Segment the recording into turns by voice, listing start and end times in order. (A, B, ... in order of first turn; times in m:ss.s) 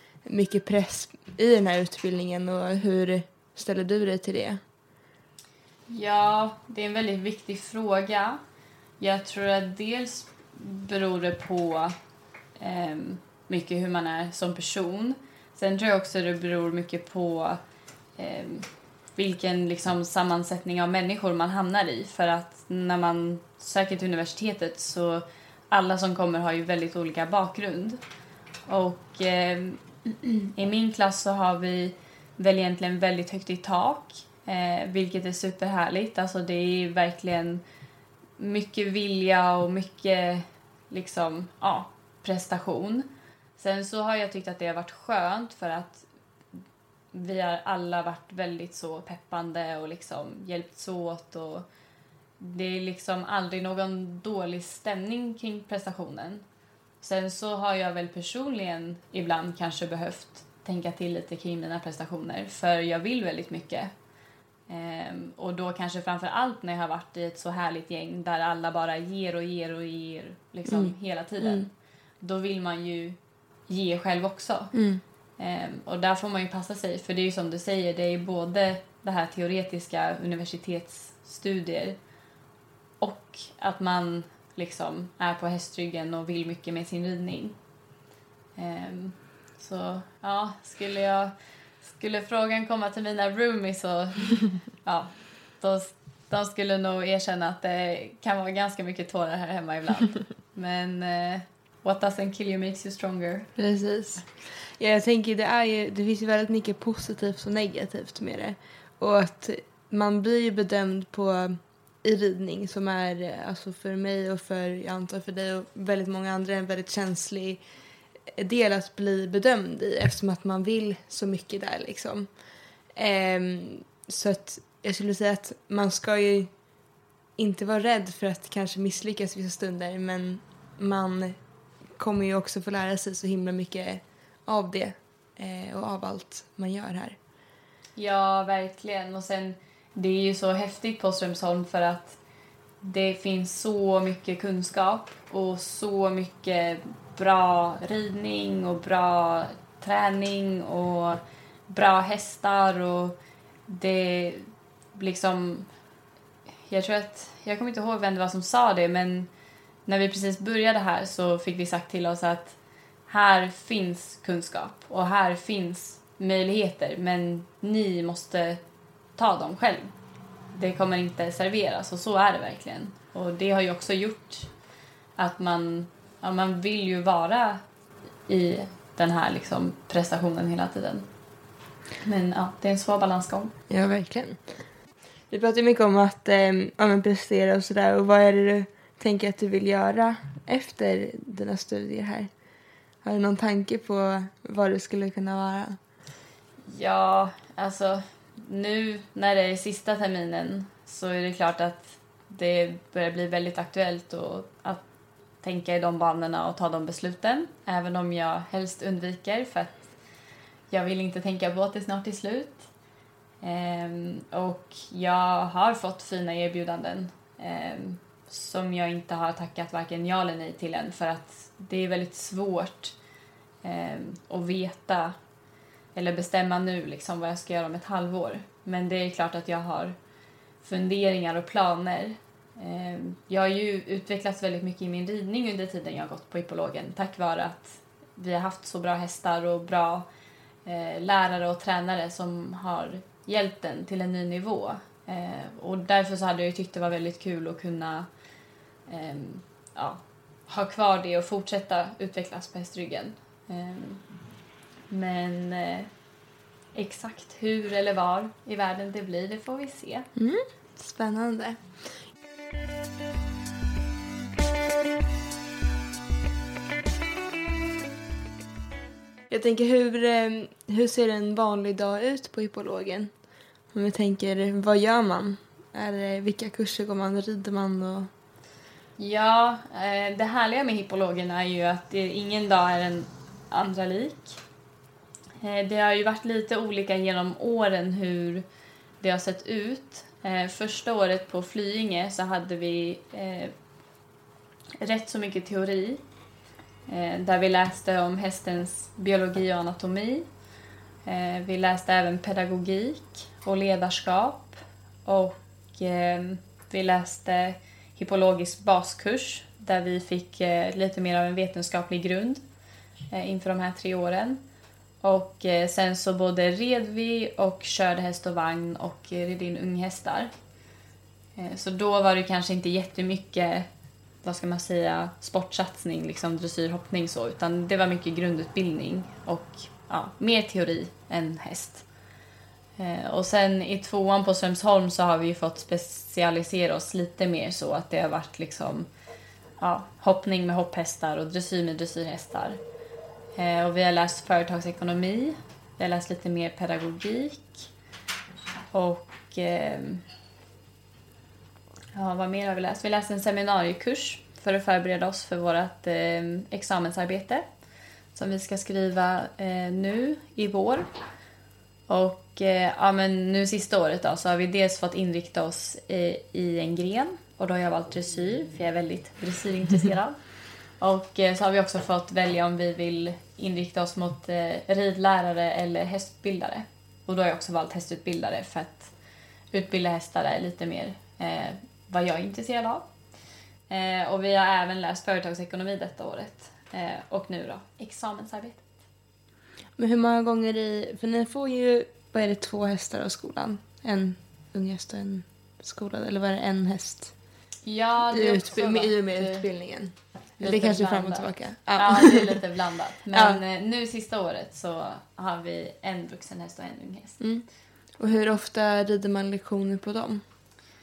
0:00.2-0:04.6 A
0:05.9-0:08.4 B
0:09.0-0:11.9 B
0:12.6-0:17.6 B
0:18.2-0:28.0 B
0:28.7-0:37.6 B
0:38.4-0:46.0 B
0:47.1-0:51.6 B
0:52.4-0:56.4 B
0:57.0-1:03.9 B
1:04.7-1:11.7 B
1:10.7-1:11.7 A
1:12.2-1:13.2 B
1:13.7-1:14.7 B
1:14.7-1:15.0 A
1:15.4-1:22.0 B
1:23.0-1:27.6 B
1:28.6-1:43.5 B
1:43.6-1:57.6 A
1:58.3-2:02.3 A
2:02.9-2:06.5 A
2:07.4-2:11.4 A
2:11.9-2:17.2 A
2:18.0-2:22.2 B
2:22.8-2:33.2 B
2:33.7-2:35.7 B
2:36.6-2:39.3 B
2:39.8-2:42.6 B
2:43.1-2:48.6 B
2:49.2-2:49.9 B
2:50.5-2:54.5 B
2:55.2-2:57.6 B
2:58.3-3:01.1 B
3:02.0-3:03.6 B
3:03.7-3:04.4 A
3:05.3-3:12.3 A
3:13.0-3:15.8 A
3:16.6-3:24.8 B
3:25.4-3:29.9 B
3:30.7-3:32.7 B
3:33.4-3:42.9 B
3:43.6-3:45.1 B
3:45.9-3:49.9 B
3:50.6-4:00.0 B
4:00.6-4:08.1 B
4:08.9-4:14.0 B
4:14.9-4:15.9 B
4:16.7-4:20.1 B
4:20.1-4:21.7 A
4:29.3-4:33.1 A
4:33.7-4:38.1 A
4:39.0-4:44.4 B
4:45.4-4:48.4 B
4:49.0-4:53.5 B
4:54.8-4:56.0 B
4:56.9-5:00.2 B
5:01.0-5:12.4 B
5:13.1-5:14.4 B
5:15.0-5:20.3 B
5:21.4-5:23.7 B
5:24.2-5:31.8 B
5:32.8-5:38.9 B
5:39.6-5:42.6 B
5:43.4-5:47.7 B
5:48.7-5:50.0 B
5:51.9-5:57.4 B
5:58.1-6:00.9 B
6:01.9-6:10.2 B
6:10.8-6:18.9 B
6:19.5-6:22.9 B
6:23.7-6:28.7 B
6:29.8-6:37.1 A
6:37.6-6:39.4 B
6:38.1-6:42.4 A
6:40.4-6:47.2 B
6:43.1-6:43.4 A
6:47.2-6:47.4 A
6:48.0-6:50.2 A